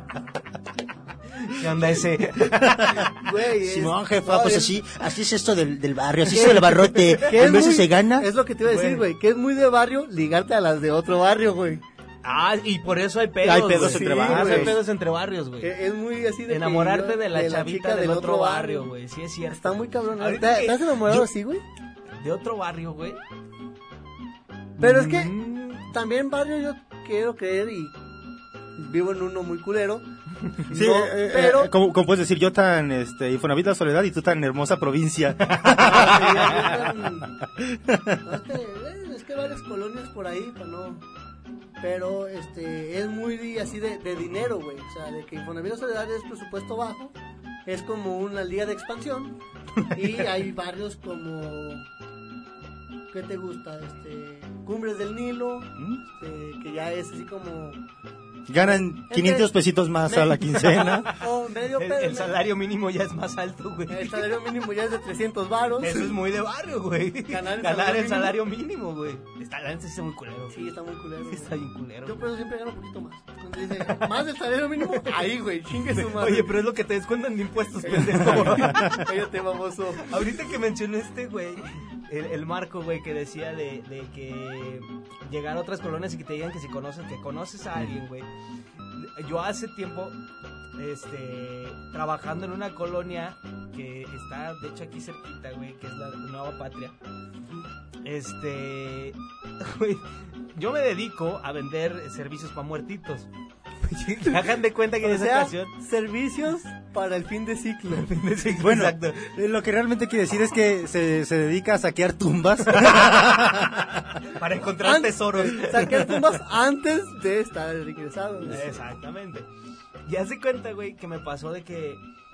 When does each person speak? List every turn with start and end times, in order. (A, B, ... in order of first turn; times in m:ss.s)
0:01.4-0:03.1 A
0:02.5-0:08.3 B
0:03.1-0:04.8 C
0:06.3-0:11.8 C
0:06.8-0:07.5 A
0:08.6-0:09.1 A
0:12.2-0:15.7 A
0:13.4-0:14.8 B
0:13.6-0:14.8 C
0:15.6-0:18.9 C
0:16.5-0:20.9 A
0:19.5-0:21.6 C
0:22.2-0:23.2 A
0:24.8-0:25.4 A
0:24.8-0:27.9 C
0:28.8-0:30.0 C
0:30.6-0:31.7 C
0:30.7-0:38.2 B
0:35.6-0:37.3 C
0:38.2-0:41.0 C
0:41.8-0:47.1 C
0:47.7-0:51.8 C
0:53.1-0:57.8 C
0:58.5-1:01.1 B
0:58.6-0:59.5 C
1:00.1-1:04.2 A
1:01.0-1:02.4 C
1:03.9-1:06.2 C
1:05.8-1:10.8 A
1:07.3-1:08.4 C
1:10.5-1:16.6 C
1:11.3-1:12.3 A
1:15.9-1:19.1 A
1:17.9-1:20.2 C
1:18.7-1:18.9 B
1:20.0-1:28.3 A
1:29.0-1:30.2 A
1:30.8-1:37.0 A
1:38.0-1:43.3 A
1:43.8-1:45.7 A
1:45.0-1:48.2 C
1:47.9-1:49.3 A
1:48.6-1:54.0 B
1:52.8-1:53.3 A
1:54.1-1:56.2 A
1:54.8-1:58.8 C
1:58.4-1:59.5 A
2:00.1-2:02.0 A